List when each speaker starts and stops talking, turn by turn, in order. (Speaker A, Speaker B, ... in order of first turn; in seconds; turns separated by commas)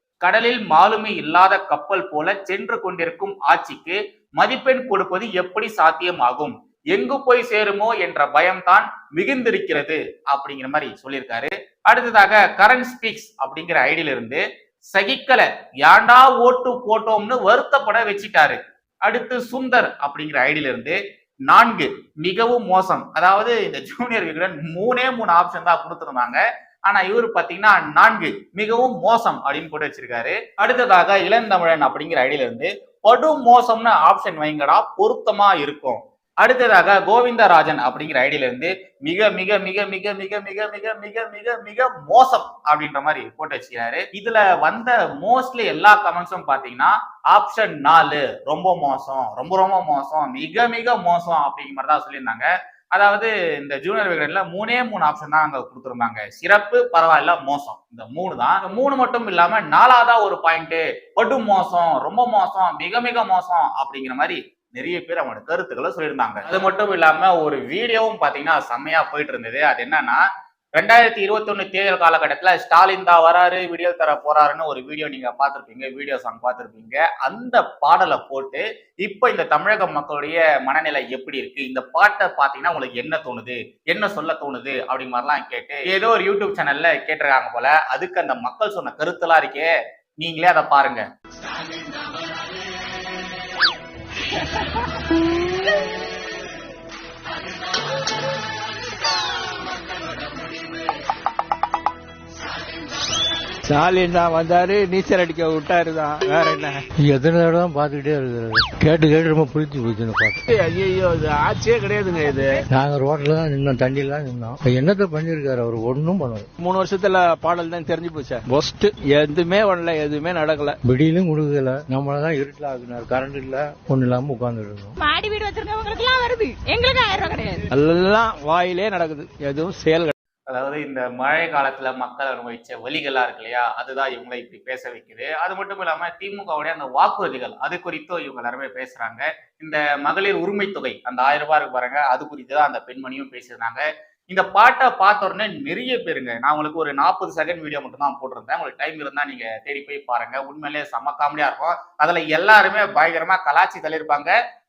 Speaker A: 0.2-70.2, Speaker A: 70.8-91.0, Speaker B: 103.7-106.8, Speaker C: 107.0-110.4, Speaker B: 110.5-112.6, Speaker C: 112.7-116.5, Speaker B: 116.6-120.8, Speaker C: 120.8-125.0, Speaker D: 125.0-127.6, Speaker B: 127.7-130.1, Speaker A: 130.5-154.4